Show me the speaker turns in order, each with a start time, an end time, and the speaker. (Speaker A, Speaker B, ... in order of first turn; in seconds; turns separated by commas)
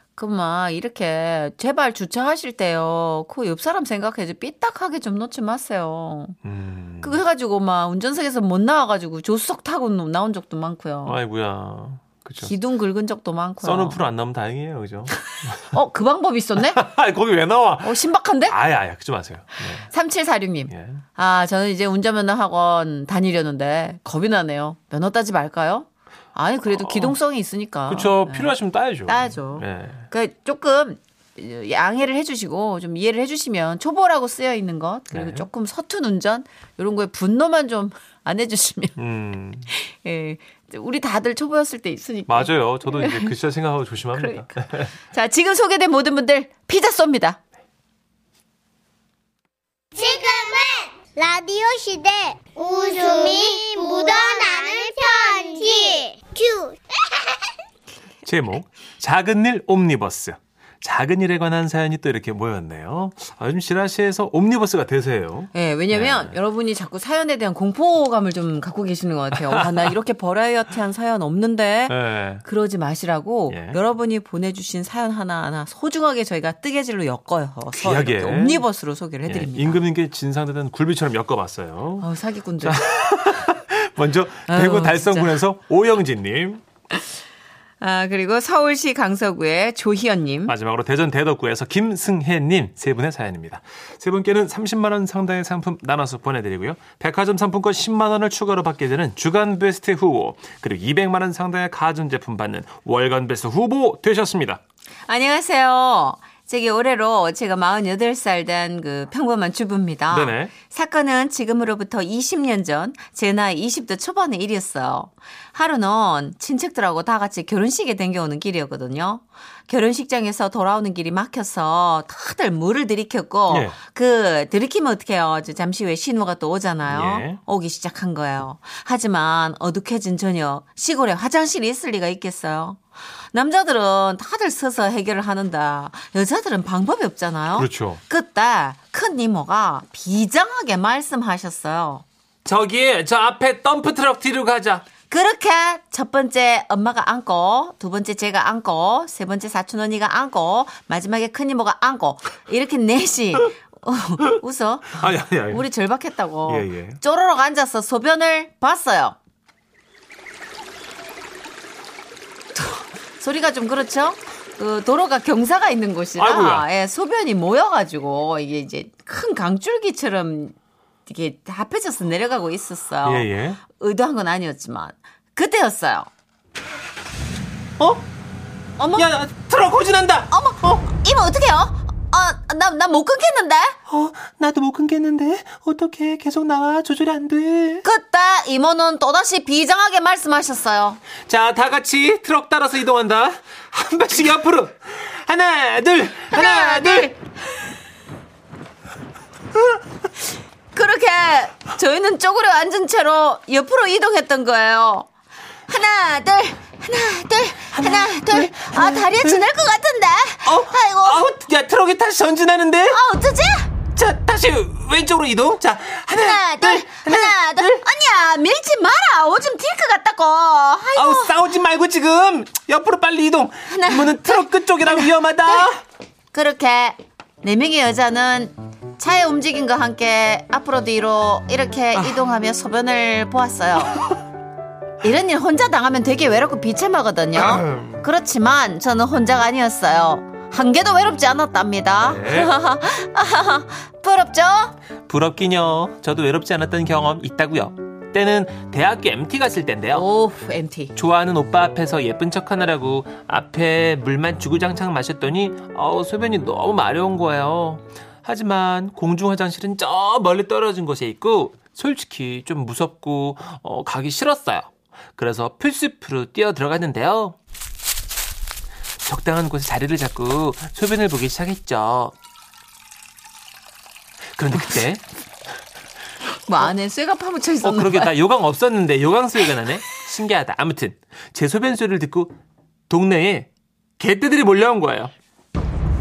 Speaker A: 0.2-6.4, Speaker B: 6.4-7.2, Speaker A: 7.0-11.2, Speaker B: 11.1-12.5, Speaker A: 12.4-14.0, Speaker B: 13.6-15.7, Speaker A: 15.6-16.8, Speaker B: 16.6-19.9, Speaker A: 17.8-18.6, Speaker A: 19.8-39.0, Speaker B: 20.7-21.0, Speaker B: 26.7-27.2, Speaker B: 27.9-30.1, Speaker B: 35.1-35.5, Speaker B: 39.0-39.7, Speaker A: 39.7-43.3, Speaker B: 42.3-44.9, Speaker A: 44.1-47.4, Speaker C: 50.0-57.5, Speaker B: 58.2-66.3, Speaker A: 65.5-79.8, Speaker B: 71.9-72.5, Speaker B: 73.5-73.8, Speaker B: 77.7-78.7, Speaker B: 79.3-82.1, Speaker A: 82.0-82.8, Speaker B: 82.6-86.6, Speaker A: 84.5-85.4, Speaker A: 87.8-90.5, Speaker B: 90.5-104.6, Speaker A: 105.1-132.8, Speaker B: 110.1-110.5, Speaker B: 123.5-123.8, Speaker B: 126.8-127.4, Speaker A: 133.3-142.0, Speaker B: 137.6-138.0, Speaker B: 142.4-144.8, Speaker A: 145.1-159.2, Speaker B: 155.0-155.7, Speaker B: 156.5-157.0, Speaker A: 162.6-170.6, Speaker B: 166.2-166.7, Speaker A: 171.1-176.1, Speaker B: 173.0-173.6, Speaker B: 177.8-178.0, Speaker A: 178.8-179.1, Speaker B: 179.0-180.3, Speaker A: 180.3-183.8, Speaker B: 183.9-187.8, Speaker A: 187.8-191.0, Speaker B: 191.3-197.1, Speaker A: 196.3-197.2, Speaker A: 200.7-205.1, Speaker A: 205.7-211.4, Speaker B: 207.7-209.4, Speaker B: 210.4-213.0, Speaker A: 212.9-213.7, Speaker B: 213.9-217.8, Speaker A: 216.2-221.4, Speaker B: 220.9-225.8, Speaker A: 223.7-225.7, Speaker A: 226.3-234.1, Speaker A: 235.0-244.8, Speaker B: 237.4-238.0, Speaker B: 242.0-242.6, Speaker B: 245.1-250.1, Speaker A: 249.9-250.9, Speaker B: 250.9-267.4, Speaker B: 269.0-272.1, Speaker B: 274.4-275.0, Speaker A: 276.5-278.1, Speaker B: 277.6-282.4, Speaker B: 282.9-285.1